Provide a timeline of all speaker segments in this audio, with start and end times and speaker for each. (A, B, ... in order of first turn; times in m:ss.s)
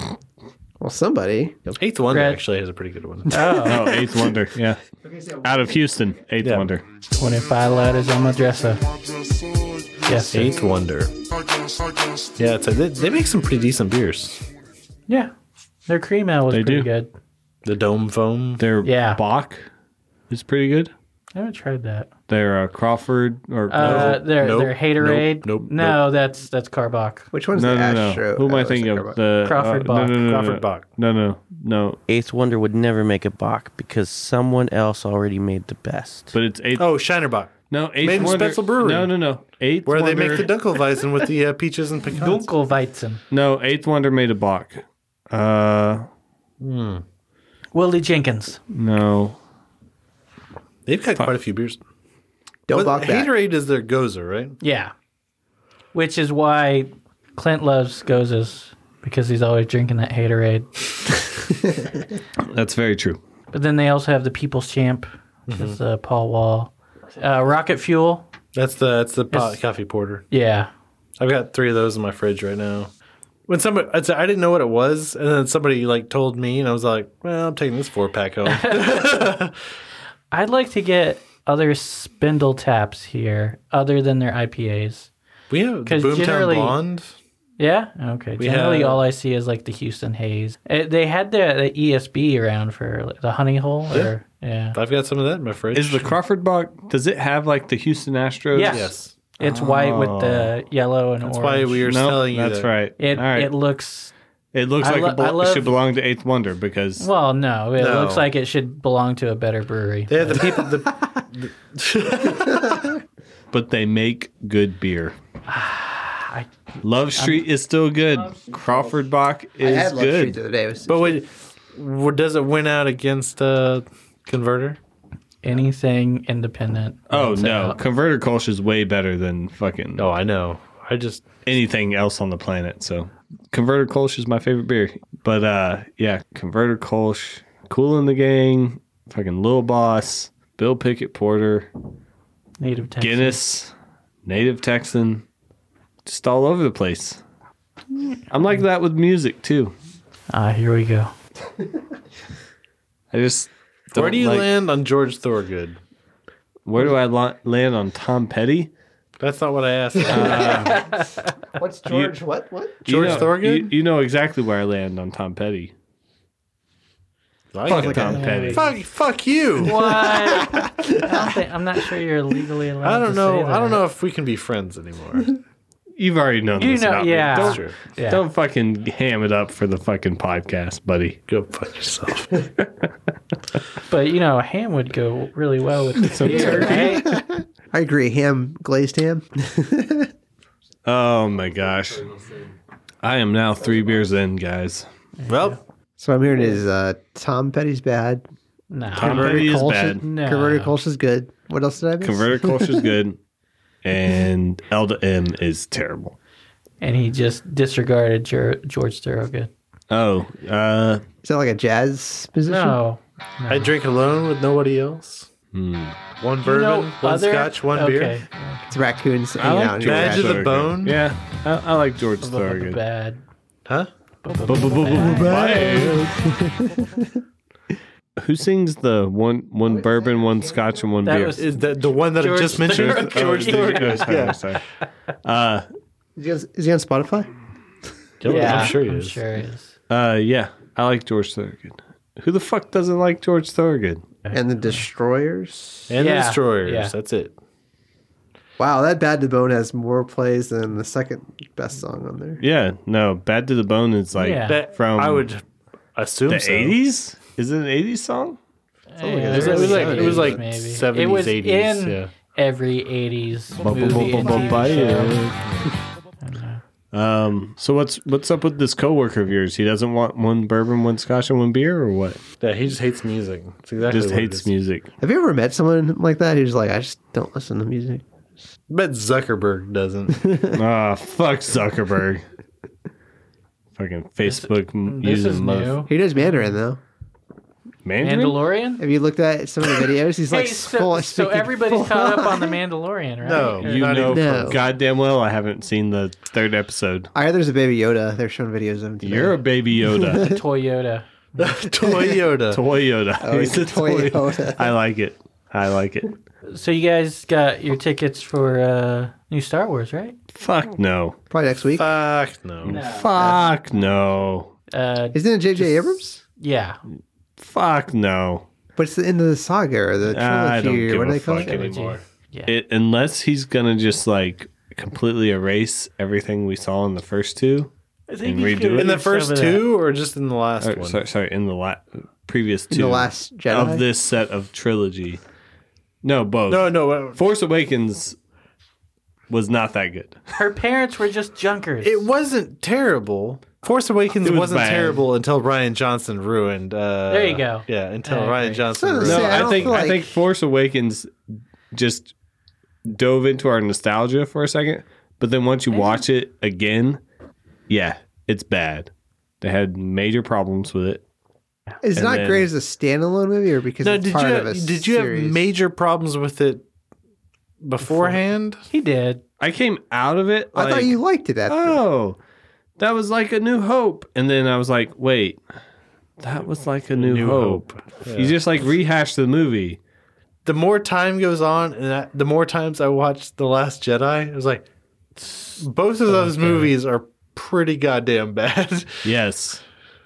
0:00.8-0:01.8 A
0:01.8-0:03.3 B
0:02.1-0:02.4 C
0:03.3-0:03.8 C
0:03.6-0:04.8 D
0:05.0-0:05.5 A
0:05.4-0:06.8 D
0:06.4-0:06.7 B
0:07.1-0:08.8 C
0:10.0-0:10.5 C
0:10.3-0:11.1 B
0:12.4-0:14.4 B
0:15.9-0:17.1 C
0:16.5-0:16.9 D
0:17.6-0:18.6 B
0:18.6-0:19.7 D
0:18.8-0:19.2 C
0:20.3-0:20.9 D
0:21.3-0:22.1 C
0:22.3-0:24.2 D
0:23.7-0:27.3 C
0:23.7-0:26.0 B
0:27.3-0:29.2 A
0:27.6-0:32.0 D
0:29.4-0:30.1 C
0:30.2-0:30.8 B
0:32.1-0:36.3 E
0:36.3-0:36.9 D
0:36.8-0:39.1 B
0:37.7-0:40.5 D
0:39.8-0:42.5 B
0:42.2-0:43.2 C
0:43.3-0:46.0 D
0:46.6-0:47.0 B
0:47.7-0:48.6 C
0:48.7-0:49.4 D
0:50.8-0:51.8 B
0:52.7-0:53.3 A
0:52.7-0:54.6 B
0:54.6-0:54.9 C
0:55.9-1:00.7 C
1:01.6-1:02.0 A
1:02.5-1:03.2 D
1:03.5-1:08.3 C
1:05.5-1:05.8 B
1:08.5-1:10.2 B
1:09.3-1:09.6 C
1:10.3-1:10.7 C
1:11.2-1:12.9 B
1:13.5-1:19.5 B
1:18.4-1:19.2 C
1:20.3-1:25.1 C
1:25.5-1:27.1 B
1:25.8-1:26.7 C
1:27.6-1:34.8 C
1:28.4-1:29.0 B
1:34.7-1:36.1 B
1:35.7-1:40.5 D
1:38.5-1:41.9 C
1:38.7-1:39.1 B
1:41.2-1:42.7 B
1:41.8-1:43.5 D
1:43.0-1:44.1 C
1:44.5-1:47.1 D
1:44.8-1:45.7 C
1:47.0-1:50.4 C
1:47.8-1:48.3 B
1:50.1-1:52.9 B
1:52.3-1:52.9 A
1:53.5-1:55.1 D
1:55.5-1:56.5 C
1:56.8-2:00.4 D
1:57.2-1:57.4 C
1:59.6-2:01.1 A
2:00.9-2:04.8 B
2:05.4-2:07.8 C
2:07.1-2:10.1 D
2:10.0-2:11.2 B
2:11.4-2:21.7 D
2:22.6-2:23.4 C
2:23.0-2:23.7 D
2:24.2-2:25.2 D
2:26.0-2:27.2 D
2:28.3-2:29.7 D
2:30.3-2:31.1 C
2:33.1-2:34.5 D
2:33.9-2:35.8 B
2:36.6-2:38.7 D
2:39.2-2:40.8 B
2:40.1-2:40.8 D
2:40.4-2:41.3 C
2:41.6-2:43.2 A
2:41.9-2:42.1 D
2:42.8-2:45.7 D
2:42.9-2:43.7 B
2:47.5-2:50.0 B
2:47.6-2:48.7 D
2:47.7-2:48.2 A
2:48.1-2:48.7 C
2:49.6-2:53.8 C
2:50.0-2:51.4 A
2:52.8-2:55.4 B
2:56.0-3:01.2 D
2:56.6-2:58.2 C
2:57.2-2:57.7 B
3:01.3-3:02.3 B
3:03.9-3:07.1 C
3:06.0-3:07.0 D
3:06.2-3:10.1 A
3:10.8-3:12.2 D
3:13.0-3:14.8 D
3:15.2-3:15.6 C
3:15.3-3:15.6 B
3:16.0-3:18.2 A
3:18.7-3:20.7 C
3:18.9-3:22.9 A
3:19.0-3:20.0 D
3:22.0-3:23.2 D
3:23.8-3:26.2 D
3:26.8-3:29.5 C
3:29.9-3:31.0 D
3:31.2-3:32.8 A
3:32.5-3:33.7 C
3:33.5-3:35.3 B
3:35.5-3:36.0 D
3:36.2-3:38.2 B
3:36.4-3:38.7 C
3:38.7-3:40.6 A
3:39.4-3:42.8 D
3:39.8-3:41.0 B
3:42.2-3:43.2 C
3:44.2-3:45.8 C
3:44.5-3:46.2 D
3:44.9-3:47.2 A
3:48.2-3:51.5 D
3:49.6-3:50.8 A
3:51.0-3:51.5 C
3:51.4-3:54.4 B
3:52.1-3:54.4 C
3:52.6-3:54.6 D
3:55.2-3:55.6 D
3:56.2-3:57.3 A
3:58.2-3:59.2 B
3:58.2-3:59.7 C
3:58.3-3:58.7 A
3:59.9-4:04.0 D
4:04.2-4:04.8 C
4:04.3-4:05.9 A
4:05.9-4:07.4 B
4:06.0-4:06.9 C
4:08.6-4:12.4 A
4:12.4-4:15.3 D
4:14.2-4:14.6 C
4:14.5-4:15.4 B
4:15.9-4:16.8 B
4:16.3-4:18.4 D
4:18.9-4:25.2 C
4:19.0-4:20.4 A
4:19.3-4:22.1 B
4:23.6-4:25.5 D
4:26.2-4:26.6 C
4:26.9-4:32.2 D
4:32.4-4:34.5 B
4:33.9-4:34.9 D
4:35.0-4:38.0 A
4:38.7-4:40.2 B
4:40.2-4:40.5 A
4:40.5-4:42.2 D
4:43.8-4:45.8 D
4:44.2-4:46.5 C
4:45.9-4:46.8 A
4:47.8-4:48.4 D
4:48.0-4:48.8 C
4:48.8-4:52.5 A
4:50.3-4:53.8 C
4:53.2-4:54.5 B
4:53.6-4:57.1 D
4:54.0-4:54.6 A
4:57.1-5:00.4 A
4:59.0-5:00.4 D
5:00.2-5:01.1 C
5:01.4-5:02.6 B
5:01.8-5:02.2 A
5:02.5-5:06.1 D
5:03.2-5:04.7 A
5:06.5-5:10.2 C
5:10.3-5:11.2 D
5:11.3-5:11.9 A
5:11.8-5:12.8 B
5:12.6-5:14.5 D
5:12.7-5:13.0 C
5:13.1-5:13.5 A
5:14.7-5:16.8 C
5:15.1-5:16.2 A
5:17.4-5:18.4 D
5:18.8-5:21.6 A
5:20.1-5:21.6 D
5:21.4-5:22.5 C
5:21.5-5:22.0 B
5:22.5-5:27.7 D
5:28.1-5:29.7 C
5:28.2-5:28.9 D
5:28.8-5:31.0 B
5:30.6-5:35.2 D
5:32.7-5:33.8 A
5:36.0-5:38.2 D
5:36.5-5:37.2 B
5:39.3-5:40.2 D
5:40.3-5:42.0 C
5:41.8-5:49.8 B
5:44.2-5:45.0 D
5:47.1-5:48.6 C
5:48.7-5:50.2 A
5:49.0-5:51.1 D
5:51.7-5:52.1 D
5:52.8-5:57.0 D
5:55.7-5:56.0 C
5:57.7-5:58.9 D
5:59.4-6:01.0 D
6:01.8-6:05.5 A
6:02.0-6:02.5 D
6:03.8-6:06.6 B
6:07.6-6:08.6 B
6:07.8-6:09.2 C
6:09.4-6:12.2 D
6:10.5-6:11.8 A
6:12.8-6:15.4 D
6:16.2-6:19.8 D
6:16.9-6:18.4 B
6:20.4-6:24.6 B
6:25.2-6:26.7 C
6:25.6-6:29.0 B
6:29.0-6:29.6 D